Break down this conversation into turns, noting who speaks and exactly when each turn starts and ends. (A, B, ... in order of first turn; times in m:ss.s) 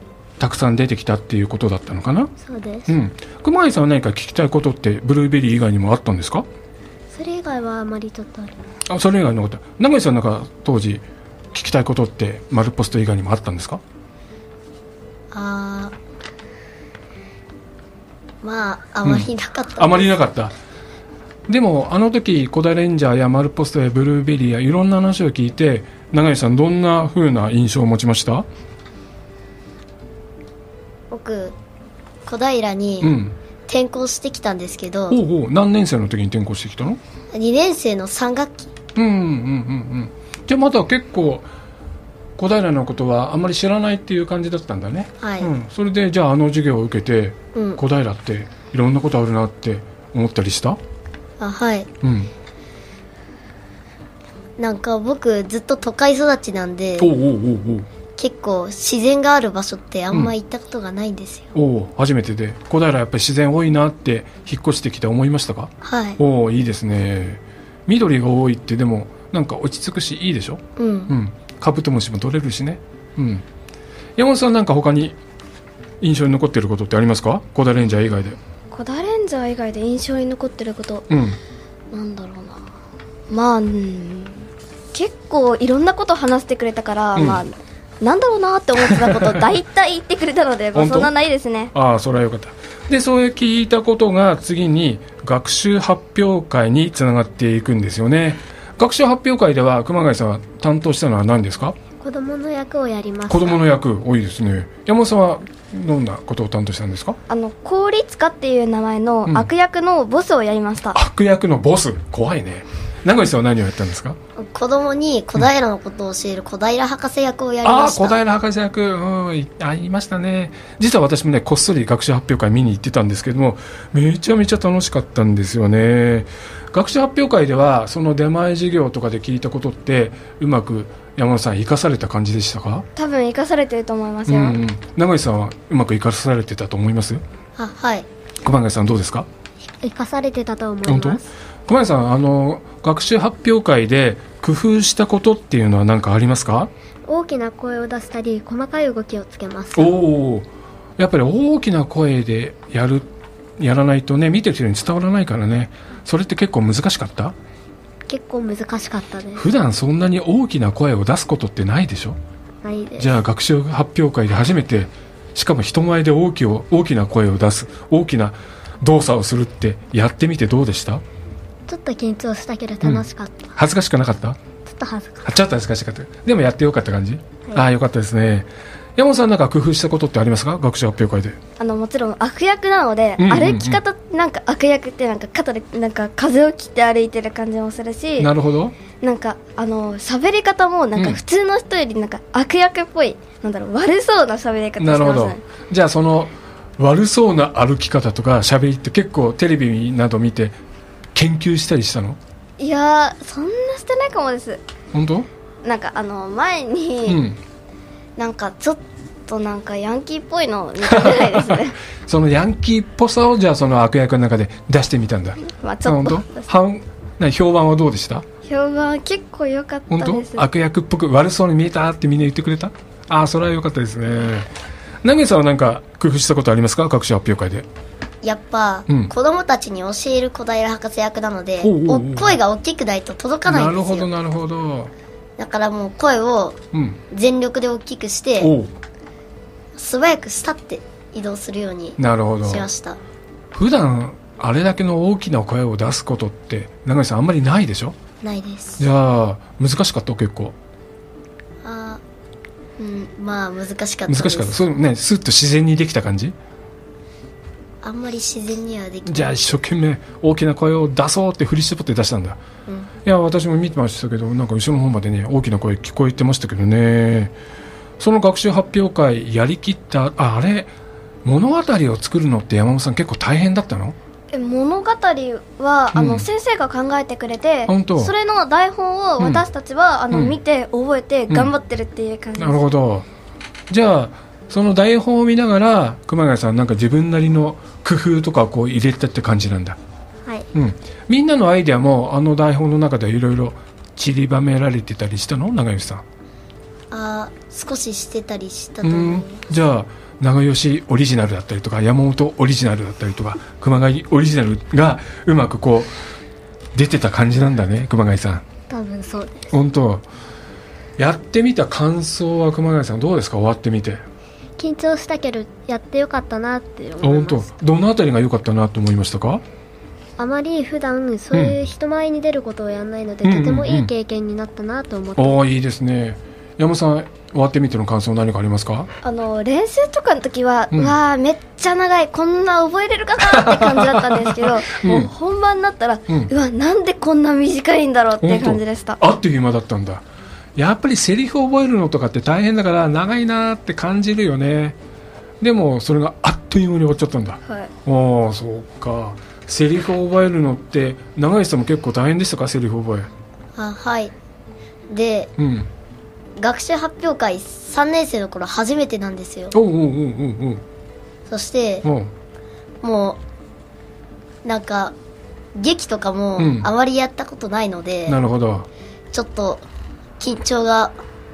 0:00.4-0:02.3 A
0:02.4-0:03.0 B
0:02.9-0:06.5 A
0:07.1-0:08.6 B
0:08.9-0:13.8 A
0:15.3-0:16.0 C
0:18.4-0:20.1 C
0:19.0-0:20.6 A
0:21.5-0:28.5 A
0:31.1-0:31.6 C
0:32.3-0:33.2 C
0:33.0-0:33.4 A
0:33.7-0:35.2 C
0:35.1-0:37.0 A
0:37.3-0:38.7 C
0:39.0-0:41.5 A
0:42.4-0:50.8 A
0:45.2-0:45.5 C
0:47.6-0:47.8 C
0:51.4-0:51.9 C
0:52.0-0:52.3 A
0:54.6-0:57.1 C
0:57.0-0:57.9 A
0:58.2-1:01.5 C
1:01.5-1:13.4 A
1:05.8-1:06.2 C
1:10.8-1:11.1 C
1:14.2-1:15.2 A
1:16.0-1:18.4 A
1:18.7-1:21.1 D
1:21.1-1:21.4 A
1:21.9-1:22.6 D
1:23.3-1:31.7 D
1:27.2-1:27.4 A
1:28.8-1:29.4 A
1:30.7-1:31.1 A
1:31.7-1:41.8 A
1:42.0-1:43.6 B
1:43.3-1:47.2 A
1:47.3-1:51.0 D
1:50.9-1:54.2 A
1:54.4-1:58.2 C
1:57.6-2:12.9 A
2:13.0-2:14.6 D
2:14.3-2:17.2 A
2:17.6-2:18.1 C
2:18.4-2:19.3 A
2:19.8-2:21.3 B
2:20.9-2:26.7 A
2:27.1-2:30.0 B
2:29.8-2:37.4 A
2:38.1-2:39.5 B
2:39.4-2:42.2 A
2:42.6-2:43.1 B
2:43.0-2:51.0 A
2:51.7-2:53.5 B
2:52.8-2:54.4 A
2:54.7-2:55.3 B
2:55.2-3:01.4 A
3:01.6-3:08.3 D
3:03.2-3:03.8 A
3:08.2-3:08.8 A
3:09.0-3:15.4 D
3:14.8-3:20.6 A
3:21.2-3:22.2 A
3:22.6-3:24.6 D
3:24.9-3:25.3 A
3:25.6-3:27.2 D
3:27.1-3:27.4 A
3:28.2-3:31.8 D
3:30.8-3:38.3 A
3:35.5-3:36.5 D
3:38.5-3:40.5 D
3:39.9-3:44.5 A
3:45.0-3:47.7 A
3:48.2-3:54.1 C
3:48.9-3:49.1 A
3:51.6-3:52.4 A
3:53.5-3:54.9 A
3:55.4-3:58.5 C
3:56.7-3:57.0 A
3:58.4-3:58.7 A
3:59.8-4:03.0 C
4:02.0-4:02.7 A
4:03.5-4:08.0 A
4:08.2-4:08.8 C
4:08.8-4:10.6 A
4:11.6-4:12.0 C
4:12.8-4:14.6 C
4:14.1-4:16.4 A
4:17.8-4:19.5 C
4:19.1-4:22.4 A
4:23.0-4:27.4 A
4:28.0-4:30.7 A
4:31.2-4:34.0 A
4:34.3-4:42.7 D
4:35.9-4:36.3 A
4:37.7-4:38.1 A
4:40.1-4:40.4 A
4:42.4-4:43.1 A
4:43.7-4:49.8 A
4:50.5-4:56.0 A
4:56.9-4:59.4 C
4:58.8-5:06.0 A
5:06.7-5:08.4 A
5:08.7-5:09.6 B
5:09.5-5:10.1 A
5:11.0-5:14.0 A
5:14.6-5:17.5 B
5:17.0-5:19.4 A
5:20.2-5:25.4 B
5:23.2-5:23.9 A
5:25.2-5:28.9 A
5:29.0-5:39.0 D
5:33.2-5:35.1 A
5:38.2-5:40.0 A
5:40.6-5:44.8 A
5:45.4-5:53.1 A
5:53.6-5:54.1 C
5:54.9-5:55.3 C
5:55.4-5:55.7 A
5:56.4-5:59.6 C
5:59.5-6:00.6 A
6:01.3-6:01.9 C
6:01.8-6:02.1 A
6:02.8-6:03.2 C
6:04.4-6:04.9 C
6:05.6-6:08.2 C
6:06.4-6:06.7 A
6:08.1-6:08.7 A
6:09.1-6:09.6 C
6:10.2-6:11.0 C